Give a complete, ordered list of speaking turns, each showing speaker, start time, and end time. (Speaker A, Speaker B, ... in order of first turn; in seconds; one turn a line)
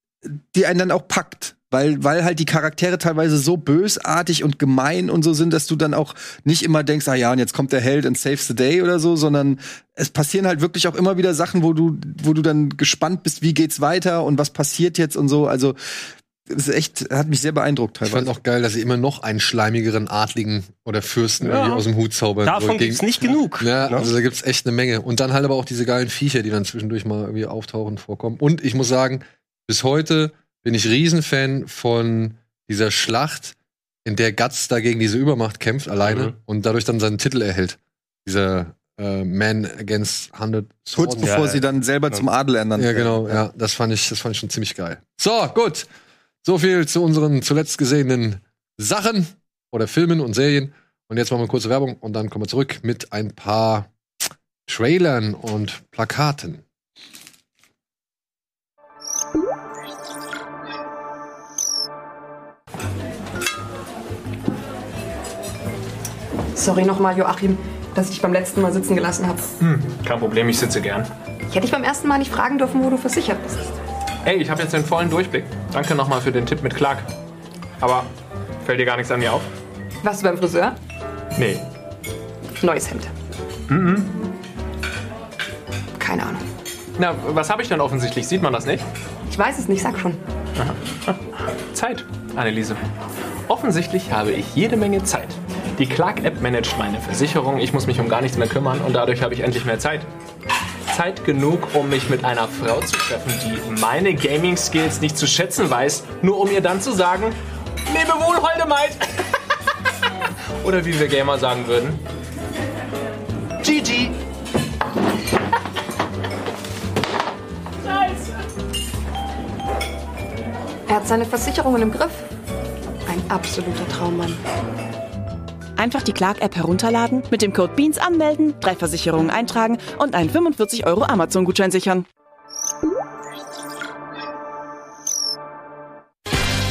Speaker A: 0.2-18.3
Speaker B: 18.1-23.1
Speaker C: 21.4-21.8
Speaker C: 22.4-24.1
Speaker B: 23.6-41.4
Speaker C: 36.0-36.3
Speaker A: 40.9-43.4
Speaker C: 41.2-41.6
Speaker B: 42.8-45.9
Speaker B: 46.4-53.9
Speaker B: 54.7-56.6
Speaker D: 66.5-69.5
Speaker E: 69.6-71.1
Speaker D: 71.5-73.7
Speaker E: 74.2-77.1
Speaker E: 77.8-78.1
Speaker E: 78.6-79.5
Speaker D: 80.0-80.8
Speaker E: 81.4-81.6
Speaker D: 82.6-83.1
Speaker E: 83.7-84.1
Speaker D: 86.0-86.4
Speaker E: 87.0-88.9
Speaker D: 89.3-90.2
Speaker E: 90.6-91.2
Speaker E: 91.7-92.8
Speaker E: 93.5-100.1
Speaker E: 100.9-107.4
Speaker E: 107.9-109.1
Speaker E: 110.6-112.0
Speaker E: 113.6-114.2
Speaker D: 120.9-122.2
Speaker D: 123.1-124.4
Speaker F: 125.8-132.1